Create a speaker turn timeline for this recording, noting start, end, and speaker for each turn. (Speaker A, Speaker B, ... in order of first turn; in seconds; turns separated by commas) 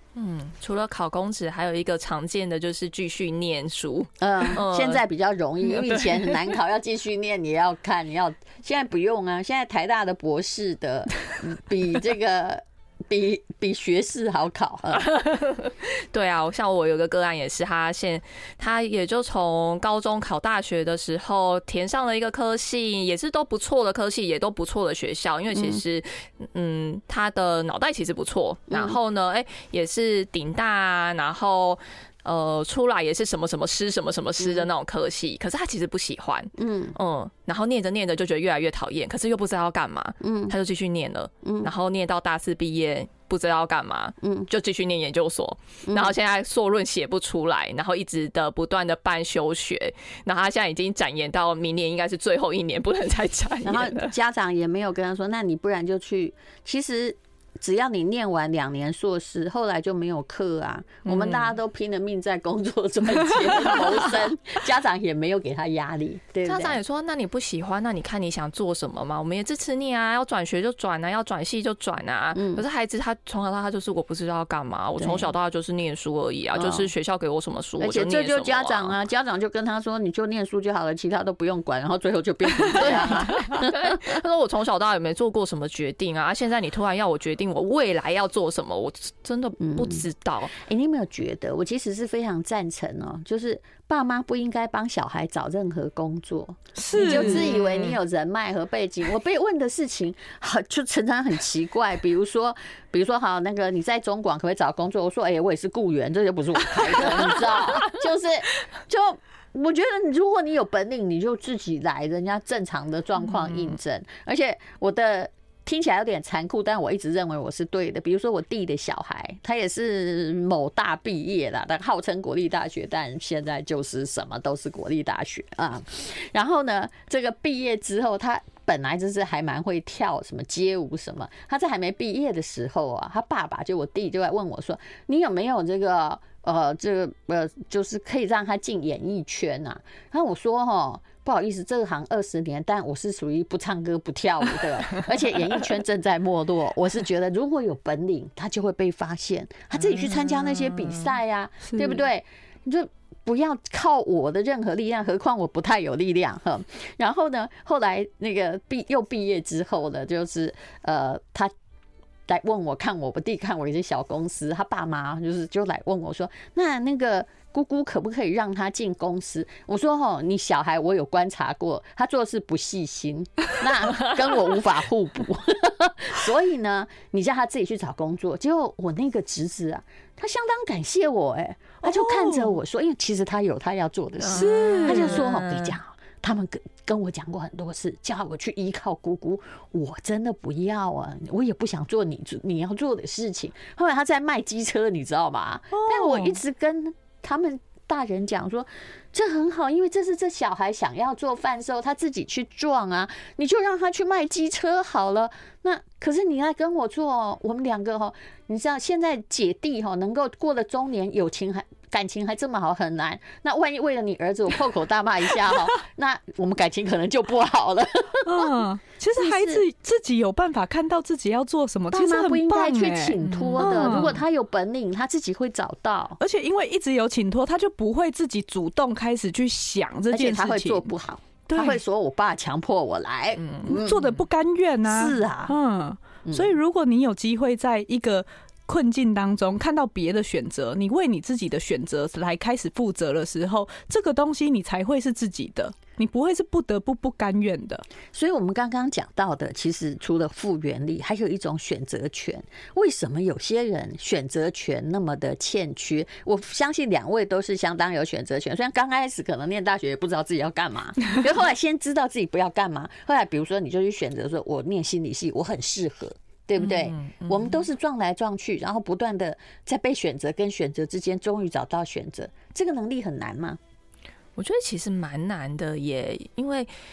Speaker A: 0.1-5.0, Speaker B: 4.2-15.1, Speaker A: 15.1-54.1, Speaker B: 25.5-25.8, Speaker B: 28.7-29.0, Speaker B: 34.4-34.7, Speaker B: 36.6-37.0, Speaker B: 40.2-40.5, Speaker B: 41.4-41.7, Speaker B: 44.2-44.5, Speaker B: 45.9-46.1, Speaker B: 53.6-66.8, Speaker A: 61.0-61.5, Speaker A: 66.4-79.0, Speaker B: 72.3-72.6, Speaker B: 75.0-75.3, Speaker B: 76.5-76.9, Speaker B: 77.8-84.2, Speaker A: 82.7-90.5, Speaker B: 89.6-161.5, Speaker C: 96.8-97.5, Speaker A: 97.0-98.0, Speaker A: 113.4-113.7, Speaker A: 149.8-151.1, Speaker C: 151.6-152.0, Speaker B: 162.3-218.6, Speaker C: 181.8-182.6, Speaker A: 184.2-185.7, Speaker C: 184.3-185.2, Speaker C: 195.7-196.4, Speaker C: 218.2-224.2, Speaker B: 219.2-219.6, Speaker B: 221.9-226.2, Speaker A: 223.2-224.1, Speaker C: 226.2-230.9, Speaker B: 230.1-234.1, Speaker C: 231.5-231.8, Speaker A: 233.4-233.8, Speaker C: 233.6-247.8, Speaker B: 234.9-235.5, Speaker B: 236.2-236.5, Speaker B: 248.1-273.6, Speaker A: 266.6-267.6, Speaker A: 274.4-276.7